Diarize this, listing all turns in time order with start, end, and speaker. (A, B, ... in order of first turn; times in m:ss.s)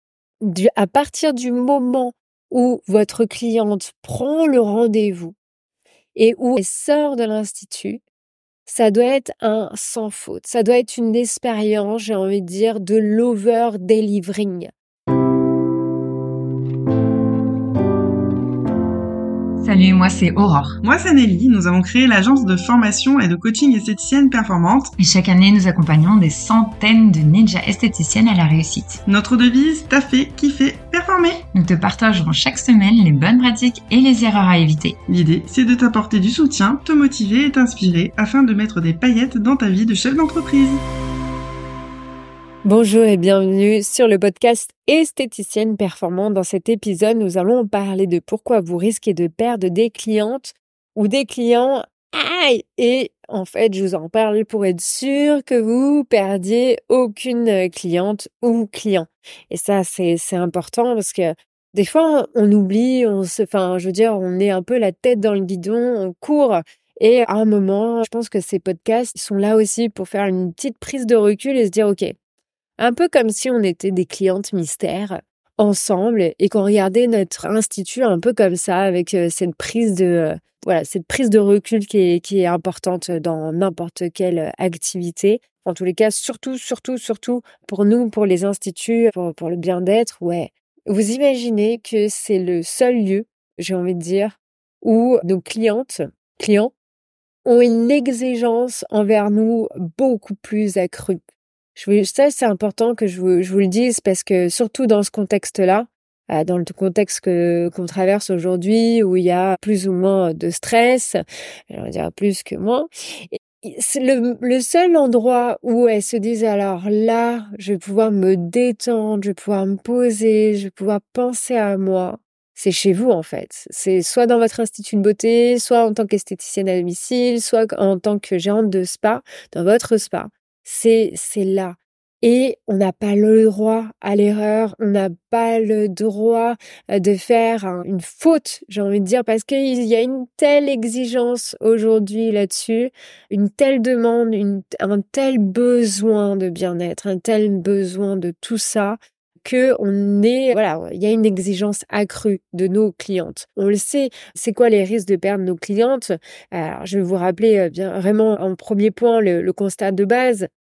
0:00.4-0:05.3 A
0:06.2-0:08.0 A
0:08.6-0:14.7 A
0:19.6-0:20.8 B
0:20.8-0:24.9 C
0:25.0-0:29.0 B
0:29.1-0:31.4 C
0:31.5-0:35.0 B
0:35.1-0:40.8 C
0:42.6-1:12.1 A
1:12.8-1:36.7 A
1:37.4-1:41.2 A
1:41.7-2:40.5 A